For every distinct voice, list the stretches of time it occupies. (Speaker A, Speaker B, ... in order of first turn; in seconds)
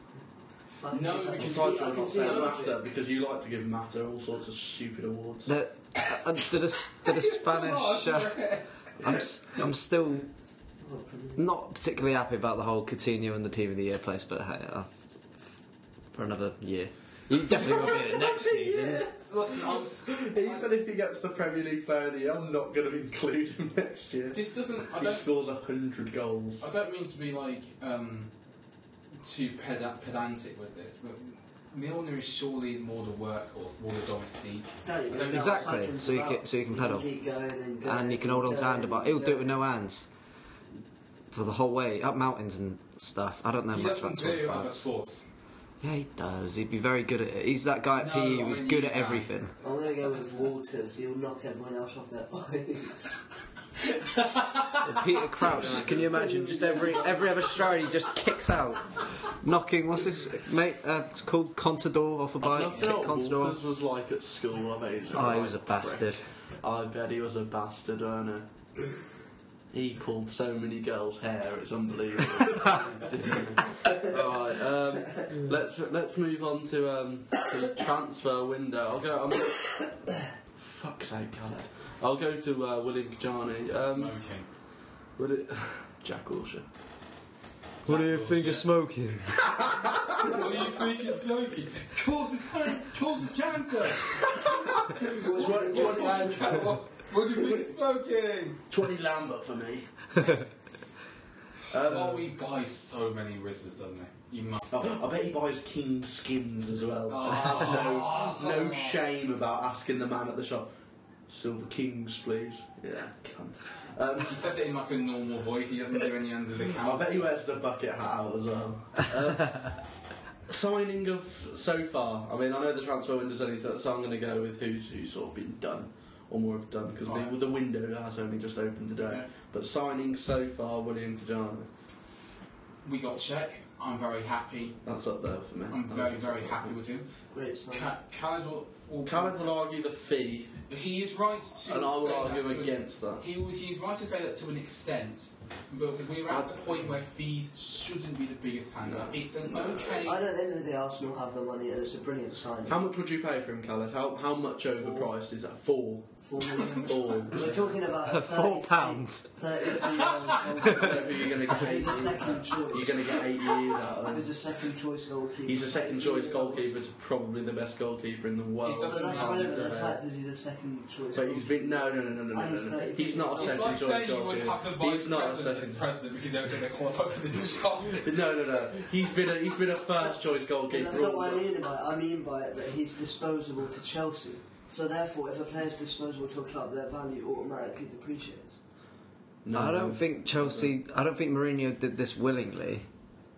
Speaker A: 0.8-2.8, 10.8-11.4, 34.8-39.5, 49.6-53.1, 56.0-57.2, 95.2-96.7, 137.3-137.9, 150.0-152.8, 154.7-155.1, 156.2-163.5, 164.1-166.8, 168.9-173.7, 180.7-188.6
Speaker B: 0.9-2.5, 6.9-9.7, 17.6-18.0, 19.2-20.8, 24.3-25.3, 26.6-28.3, 29.2-35.8, 43.7-45.2, 48.0-49.3, 53.8-55.9, 83.5-84.5, 87.9-88.7, 90.2-98.6, 101.8-104.9, 107.1-109.0, 114.2-117.2, 127.1-127.3, 132.8-134.8, 135.7-137.1, 137.7-139.6, 140.7-150.2, 168.6-169.8, 173.3-178.7
Speaker C: 1.4-5.5, 17.4-26.6, 55.4-56.5, 62.4-68.5, 69.7-80.0, 80.6-84.3, 85.2-86.7, 94.3-96.8, 98.7-100.3, 101.7-102.3, 104.7-110.7, 111.3-114.4, 116.8-119.9, 120.5-131.7, 134.8-136.8, 139.0-140.6, 141.6-143.2, 146.3-146.8, 148.8-150.1, 152.6-156.1, 156.8-157.7, 160.7-164.4, 165.4-170.0, 171.1-175.9, 177.9-181.5, 189.4-190.8
Speaker D: 5.5-10.3, 11.4-14.9, 16.1-19.1, 35.1-37.1, 37.8-40.1, 41.3-44.9, 45.8-49.5, 54.8-63.6, 65.1-66.2, 87.9-89.9, 158.0-159.8, 160.6-161.6, 189.5-192.9